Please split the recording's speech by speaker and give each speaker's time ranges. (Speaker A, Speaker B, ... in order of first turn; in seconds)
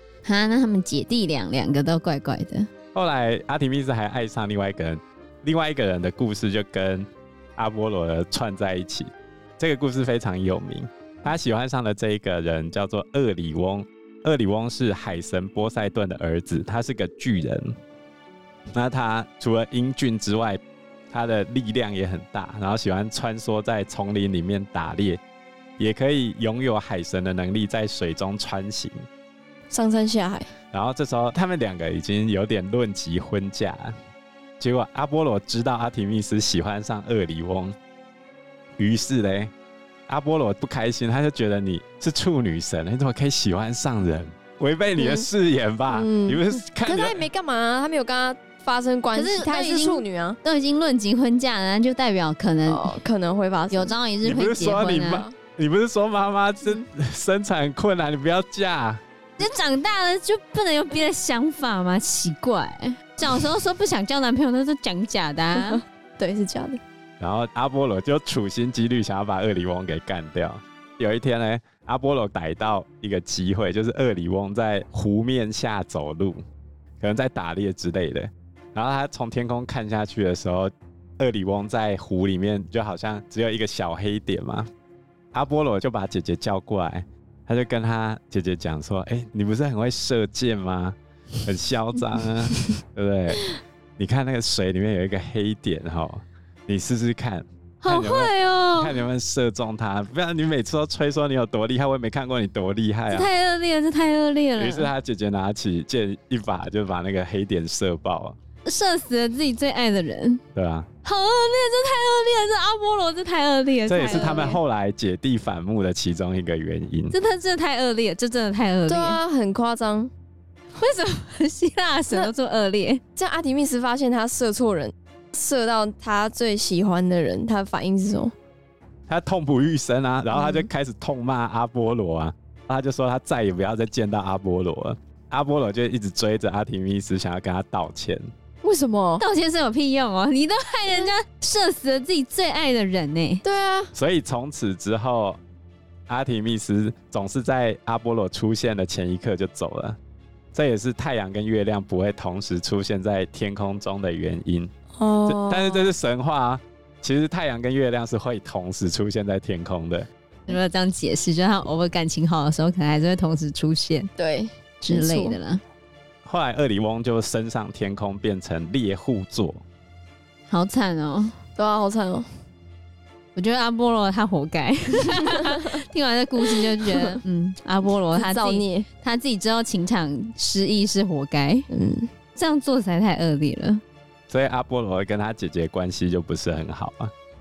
Speaker A: 0.2-2.7, 49.1-53.0, 53.7-55.2, 59.4-65.8, 97.8-99.0, 103.1-104.9, 108.6-110.4, 111.0-114.6, 117.1-119.2, 120.7-123.0, 139.2-143.4, 160.5-164.1, 164.8-165.6, 170.5-171.3, 173.3-181.7, 182.3-183.8
Speaker B: 2.9-17.7, 18.7-25.2, 25.8-29.1, 30.7-33.9, 34.6-37.8, 38.8-39.5, 40.1-47.2, 54.2-59.0, 67.2-76.4, 77.0-84.7, 85.3-93.4, 94.0-103.3, 104.6-108.4, 110.5-110.9, 113.9-117.1, 129.1-138.2, 143.9-145.4, 146.1-150.0, 150.5-154.7, 155.2-160.1, 166.2-169.6, 184.3-187.1
Speaker C: 29.7-30.5, 45.0-45.3, 45.9-50.4, 52.7-54.0, 65.5-66.8, 114.0-114.6, 118.9-120.1, 123.2-128.3, 130.3-130.7, 138.6-139.2, 143.4-143.9, 155.0-155.9, 164.2-165.4, 171.6-172.3, 175.2-175.7, 176.4-177.2, 178.1-178.9, 181.7-182.1